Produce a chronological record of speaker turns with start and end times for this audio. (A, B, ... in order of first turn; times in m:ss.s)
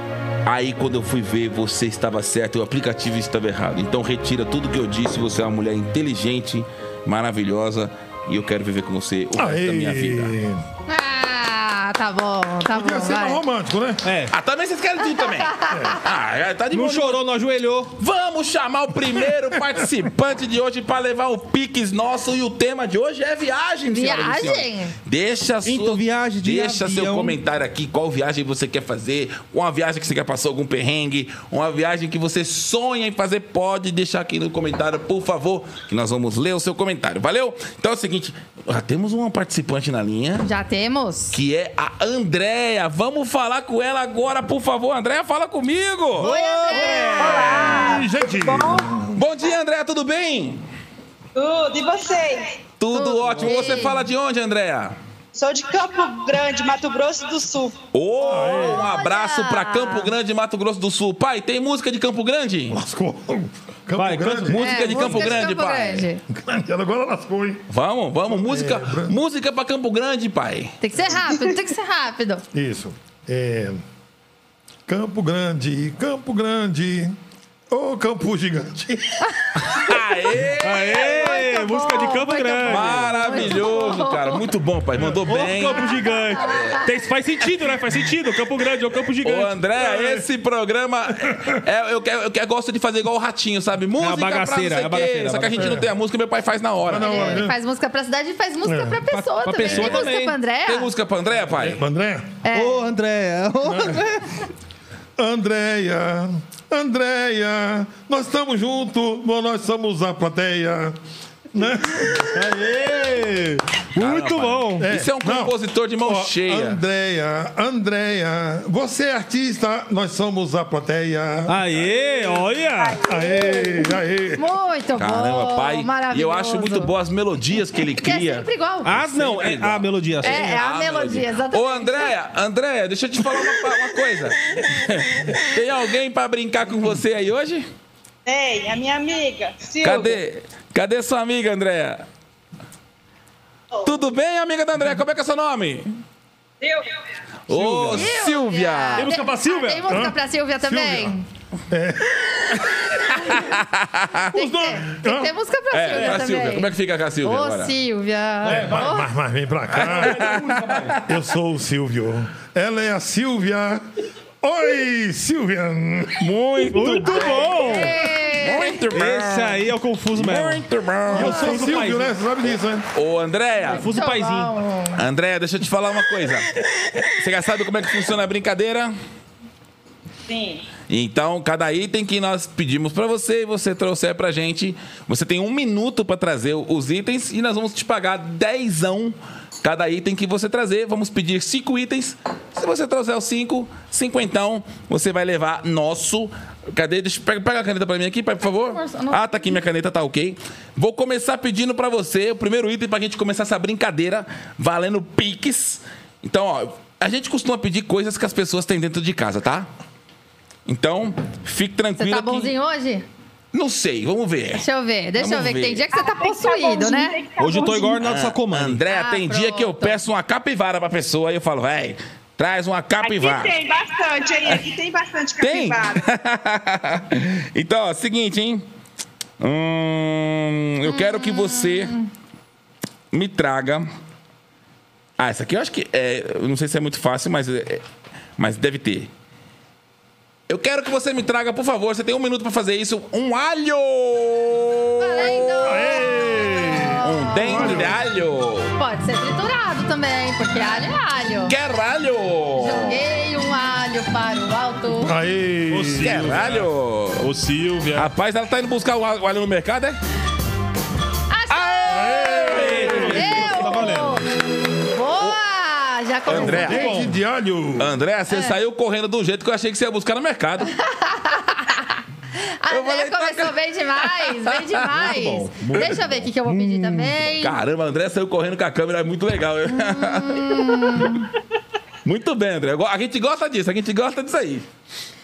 0:00.4-0:10.3 A
0:09.4-0:10.6 B
0:10.9-0:13.4 C
0:12.7-0:14.0 B
0:14.0-0:14.3 D
0:14.3-0:17.2 A
0:15.0-0:16.0 C
0:15.7-0:16.0 B
0:16.7-0:17.9 D
0:18.0-0:40.5 A
0:23.9-0:24.9 C
0:25.6-0:27.4 D
0:40.4-0:41.4 C
0:41.3-0:46.3 A
0:46.2-0:47.8 D
0:46.2-0:47.6 C
0:47.2-0:48.9 E
0:47.4-0:49.2 B
0:49.2-0:50.6 A
0:51.3-0:52.6 E
0:52.8-0:55.0 A
0:52.9-0:54.0 C
0:55.3-0:57.8 E
0:57.9-1:02.8 A
0:58.2-0:58.9 B
0:58.2-1:00.1 C
1:02.7-1:04.6 B
1:04.0-1:05.0 D
1:04.5-1:06.1 A
1:04.6-1:06.2 C
1:06.3-1:07.6 B
1:07.7-1:10.8 A
1:08.3-1:09.1 B
1:10.8-1:12.4 C
1:12.5-1:13.8 B
1:14.9-1:17.2 B
1:17.7-1:19.3 B
1:19.3-1:19.5 C
1:19.6-1:21.3 A
1:20.6-1:23.6 D
1:20.9-1:24.4 C
1:22.6-1:26.8 A
1:25.0-1:29.5 D
1:25.7-1:26.9 C
1:29.2-1:37.4 A
1:29.8-1:30.2 B
1:31.2-1:31.6 B
1:34.0-1:35.8 D
1:35.5-1:35.9 B
1:36.8-1:37.6 B
1:37.0-1:40.9 C
1:38.6-1:39.0 B
1:39.1-1:40.4 D
1:39.6-1:40.1 A
1:40.6-1:41.8 A
1:41.5-1:42.4 B
1:42.4-1:42.9 C
1:42.5-1:44.4 D
1:43.6-1:44.0 B
1:45.2-1:51.0 B
1:51.5-1:52.7 B
1:52.3-1:54.9 D
1:54.0-1:56.8 A
1:54.8-2:01.6 B
2:01.5-2:03.0 D
2:02.8-2:03.9 E
2:03.0-2:04.4 B
2:04.4-2:06.9 C
2:05.0-2:17.7 A
2:08.0-2:08.9 C
2:08.8-2:10.5 D
2:10.2-2:12.1 C
2:18.2-2:20.2 E
2:19.8-2:22.0 A
2:23.8-2:25.9 A
2:26.6-2:27.0 E
2:27.5-2:29.1 A
2:27.5-2:28.1 D
2:27.9-2:31.2 C
2:28.9-2:30.0 D
2:29.9-2:31.1 B
2:31.7-2:32.8 B
2:32.7-2:34.3 A
2:34.3-2:36.7 C
2:34.3-2:35.3 B
2:35.7-2:37.7 A
2:37.2-2:39.1 C
2:38.4-2:38.9 D
2:38.4-2:40.4 B
2:39.7-2:41.0 A
2:39.8-2:41.0 D
2:41.0-2:43.8 B
2:44.4-2:46.3 B
2:46.2-2:51.8 A
2:46.6-2:48.0 D
2:47.1-2:48.8 C
2:48.9-2:52.2 D
2:51.1-2:52.8 B
2:52.9-2:53.9 A
2:53.7-2:54.5 D
2:53.8-2:55.0 C
2:55.0-2:56.5 A
2:57.1-2:58.9 A
3:00.3-3:00.7 E
3:00.9-3:29.7 A
3:18.7-3:19.6 C
3:30.6-3:32.5 A
3:32.0-3:33.0 C
3:33.5-3:34.6 A
3:34.6-3:37.2 C
3:35.2-3:35.8 A
3:35.9-3:38.1 E
3:37.4-3:38.8 D
3:38.0-3:43.6 A
3:38.9-3:40.0 C
3:43.0-3:46.0 E
3:45.4-3:48.6 A
3:49.4-3:51.9 A
3:50.8-3:52.1 C
3:53.1-3:53.9 A
3:55.2-3:57.8 A
3:58.4-3:59.1 A
4:00.5-4:06.0 A
4:05.0-4:07.9 C
4:05.6-4:08.0 B
4:07.0-4:08.7 A
4:08.8-4:11.5 C
4:11.5-4:13.0 A
4:12.6-4:15.1 C
4:15.0-4:16.3 B
4:15.7-4:18.1 D
4:16.0-4:17.3 A
4:17.9-4:20.0 A
4:21.3-4:24.2 C
4:21.6-4:23.6 A
4:21.9-4:23.2 B
4:22.4-4:24.2 D
4:24.8-4:26.8 C
4:26.3-4:26.9 A
4:26.3-4:27.9 B
4:26.4-4:27.1 D
4:27.8-4:30.7 A
4:28.3-4:28.6 C
4:30.7-4:37.6 C
4:32.7-4:35.1 A
4:34.9-4:37.1 D
4:37.4-4:41.2 A
4:39.7-4:41.3 C
4:42.0-4:44.6 A